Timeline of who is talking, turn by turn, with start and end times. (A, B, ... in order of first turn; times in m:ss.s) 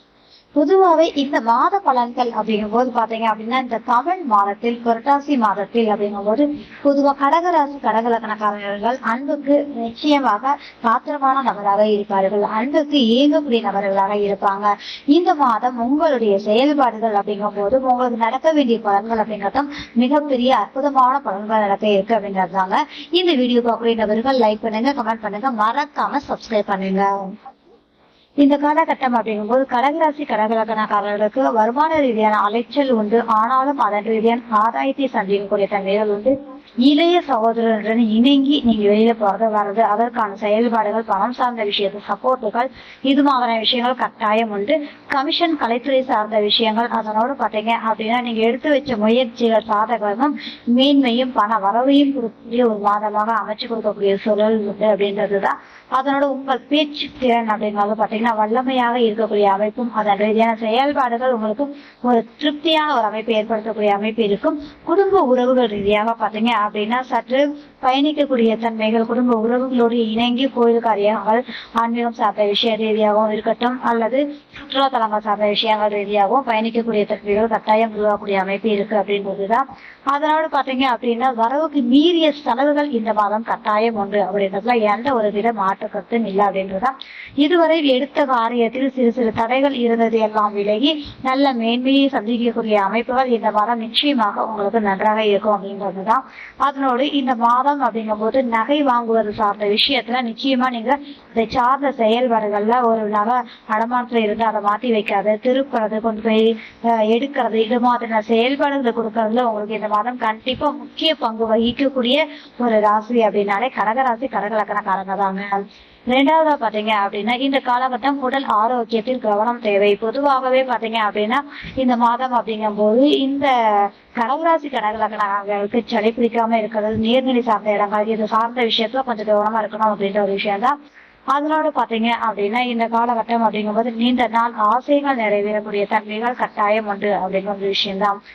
0:00.6-0:27.3 A
0:28.4-1:55.5 A
1:56.1-2:10.7 A
2:11.3-2:18.2 A